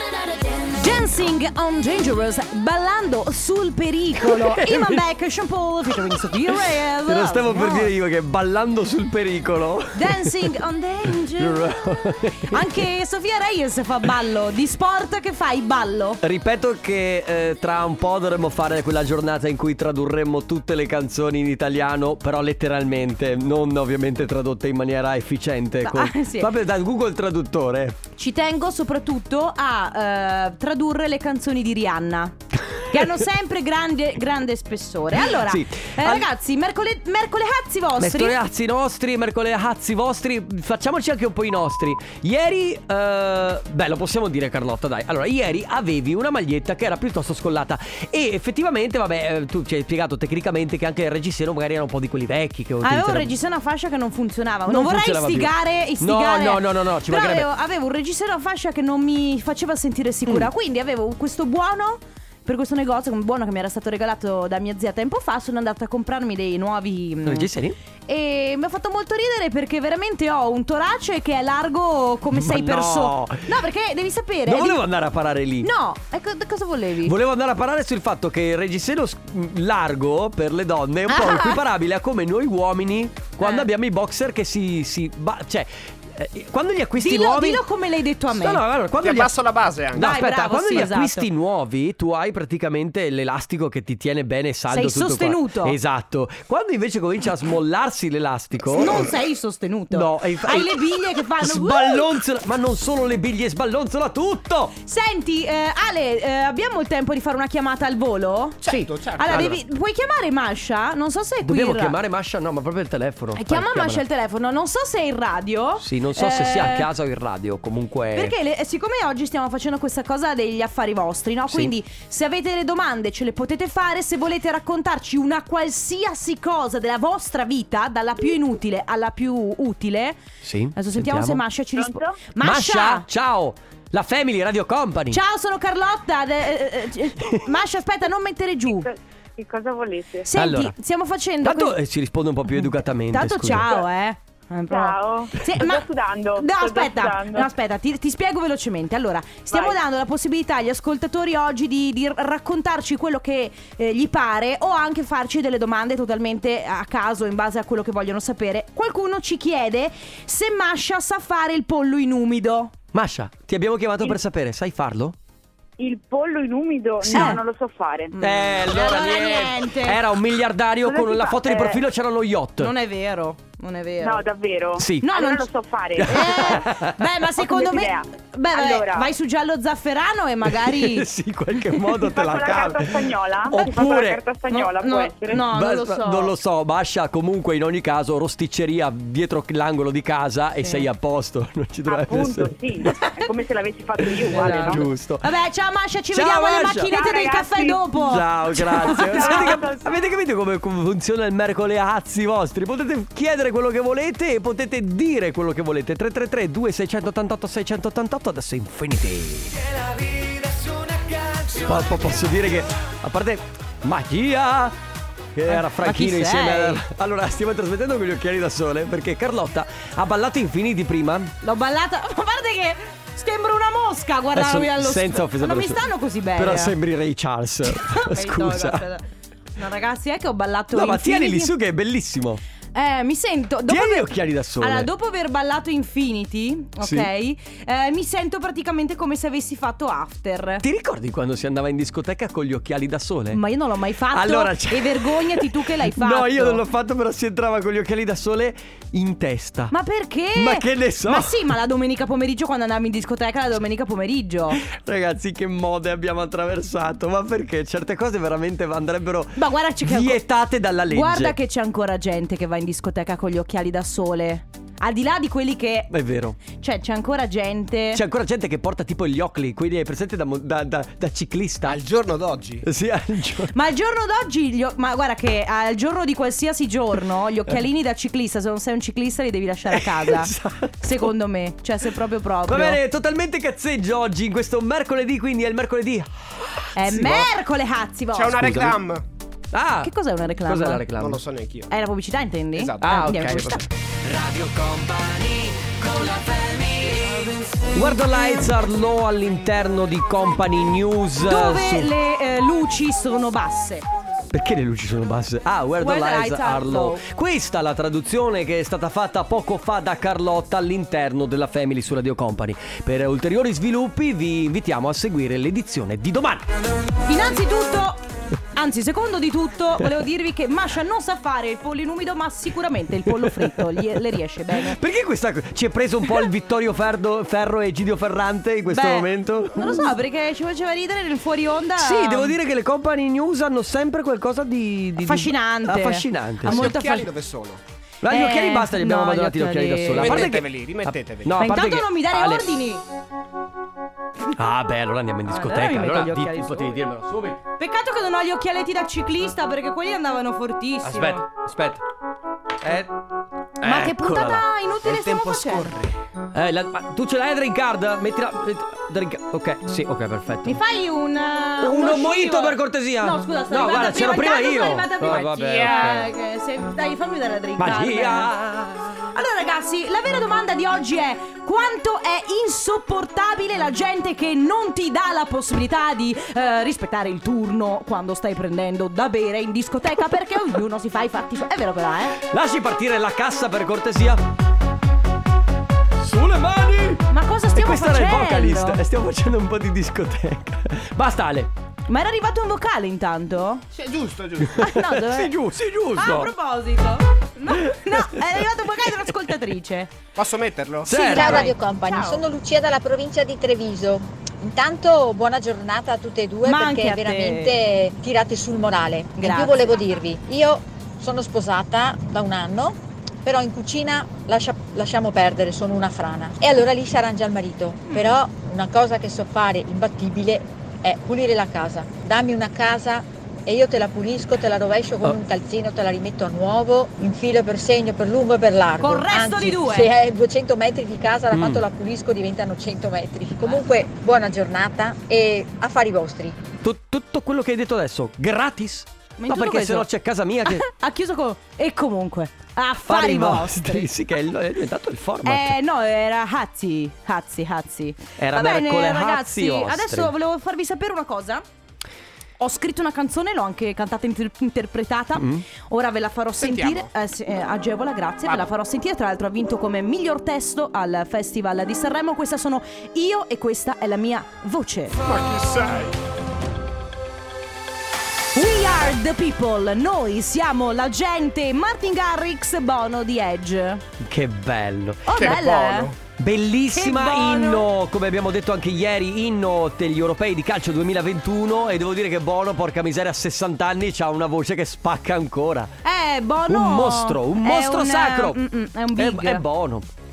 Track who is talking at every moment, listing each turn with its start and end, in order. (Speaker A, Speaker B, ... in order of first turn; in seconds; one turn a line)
Speaker A: 0.7-7.9
Speaker B: 4.2-5.0
Speaker B: 7.0-10.5
Speaker A: 9.9-11.7
Speaker B: 11.3-12.8
Speaker A: 12.5-16.2
Speaker B: 16.2-28.0
Speaker A: 25.8-26.5
Speaker A: 28.2-38.4
Speaker B: 35.1-36.3
Speaker B: 38.0-53.3
Speaker A: 52.8-67.5
Speaker B: 54.7-57.5
Speaker B: 67.2-67.8
Speaker A: 68.1-74.8
Speaker B: 72.3-73.6
Speaker B: 74.5-75.7
Speaker A: 75.6-77.1
Speaker B: 77.0-87.6
Speaker A: 81.1-81.6
Speaker A: 83.4-83.7
Speaker A: 87.0-88.6
Speaker B: 88.3-99.1
Speaker C: 89.0-90.8
Speaker A: 90.0-91.3
Speaker A: 94.7-95.8
Speaker A: 98.7-102.2
Speaker B: 99.9-104.7
Speaker A: 104.8-112.0
Speaker C: 108.6-109.5
Speaker B: 108.7-109.6
Speaker B: 111.4-114.0
Speaker A: 113.3-116.9
Speaker B: 115.8-118.3
Speaker A: 118.1-130.2
Speaker B: 130.4-131.4
Speaker A: 130.7-133.1
Speaker B: 132.4-135.2
Speaker A: 135.1-138.9
Speaker D: 138.7-140.3
Speaker A: 140.2-141.8
Speaker B: 140.3-140.8
Speaker B: 141.4-143.7
Speaker A: 143.1-162.7
Speaker D: 144.7-147.5
Speaker D: 149.5-149.8
Speaker B: 162.9-165.2
Speaker D: 165.8-168.1
Speaker B: 167.0-167.4
Speaker A: 167.1-167.4
Speaker A: 168.1-170.0
Speaker B: 168.2-172.7
Speaker D: 170.8-171.8
Speaker A: 172.6-174.3
Speaker D: 174.0-176.7
Speaker B: 174.8-175.1
Speaker A: 175.0-175.5
Speaker B: 175.9-177.0
Speaker A: 176.0-181.1
Speaker D: 177.4-179.1
Speaker B: 180.5-184.2
Speaker D: 182.0-185.4
Speaker A: 184.5-186.3
Speaker B: 185.3-192.7
Speaker A: 190.6-190.9
Speaker D: 191.8-194.8
Speaker A: 192.9-193.2
Speaker B: 194.0-195.3
Speaker A: 194.3-199.7
Speaker B: 196.1-196.9
Speaker D: 196.8-198.2
Speaker B: 198.0-214.8
Speaker D: 198.9-199.9
Speaker B: 215.3-221.3
Speaker A: 215.5-216.8
Speaker A: 221.4-226.7
Speaker B: 224.3-225.8
Speaker B: 226.3-228.8
Speaker A: 227.7-229.0
Speaker A: 229.6-231.5
Speaker B: 230.7-232.4
Speaker A: 232.7-240.6
Speaker B: 233.7-234.9
Speaker B: 236.8-237.1
Speaker B: 240.6-243.4
Speaker A: 243.3-246.6
Speaker B: 244.1-249.7
Speaker A: 249.7-254.6
Speaker B: 250.3-251.4
Speaker B: 254.5-261.4
Speaker A: 259.4-260.2
Speaker A: 260.9-265.9
Speaker B: 265.9-266.4
Speaker A: 266.4-268.0
Speaker B: 267.9-271.8
Speaker C: 271.6-272.6
Speaker B: 272.6-273.5
Speaker A: 273.5-282.8
Speaker B: 279.7-281.1
Speaker B: 282.4-287.3
Speaker A: 286.8-288.7
Speaker C: 288.1-289.0
Speaker B: 288.4-288.7
Speaker B: 289.5-289.9
Speaker A: 289.8-290.8
Speaker B: 290.4-291.2
Speaker C: 291.0-291.7
Speaker A: 291.7-293.7
Speaker C: 292.5-293.4
Speaker B: 292.8-301.9
Speaker A: 301.2-303.8
Speaker B: 304.3-316.5
Speaker A: 305.8-307.0
Speaker A: 317.0-318.0
Speaker A: 318.5-324.8
Speaker B: 323.0-329.9
Speaker A: 328.7-332.4
Speaker B: 331.8-336.8
Speaker A: 335.0-337.1
Speaker C: 336.4-337.6
Speaker B: 338.0-342.5
Speaker A: 338.1-340.4
Speaker C: 339.9-341.4
Speaker A: 341.3-342.8
Speaker B: 344.4-347.4
Speaker A: 345.3-346.7
Speaker A: 347.6-351.2
Speaker B: 350.8-351.8
Speaker B: 352.6-352.9
Speaker B: 353.6-354.5
Speaker A: 353.6-355.7
Speaker C: 354.8-355.8
Speaker B: 356.3-360.6
Speaker A: 360.4-368.3
Speaker B: 361.6-366.1
Speaker C: 365.4-365.9
Speaker B: 367.6-369.1
Speaker A: 369.1-382.2
Speaker B: 382.3-384.2
Speaker B: 386.0-391.5
Speaker A: 387.1-388.8
Speaker A: 391.9-393.6
Speaker C: 393.7-394.6
Speaker A: 394.5-395.3
Speaker B: 394.5-396.3
Speaker A: 395.9-399.9
Speaker B: 397.5-398.4
Speaker C: 400.1-400.9
Speaker B: 400.8-401.5
Speaker A: 400.9-402.2
Speaker E: 401.0-436.4
Speaker A: 406.4-407.6
Speaker A: 409.1-409.7
Speaker A: 417.9-418.2
Speaker A: 428.8-429.9
Speaker B: 431.3-431.6
Speaker B: 436.6-440.7
Speaker A: 439.2-439.9
Speaker A: 440.4-443.9
Speaker B: 442.8-445.6
Speaker A: 445.2-451.4
Speaker B: 448.2-450.1
Speaker A: 452.4-465.0
Speaker B: 455.1-455.4
Speaker C: 456.4-456.9
Speaker C: 465.0-466.0
Speaker A: 468.3-473.8
Speaker B: 474.0-475.4
Speaker A: 475.1-475.9
Speaker C: 475.1-475.9
Speaker B: 476.1-485.7
Speaker A: 476.7-477.7
Speaker A: 485.8-489.4
Speaker B: 486.4-488.4
Speaker B: 488.9-489.9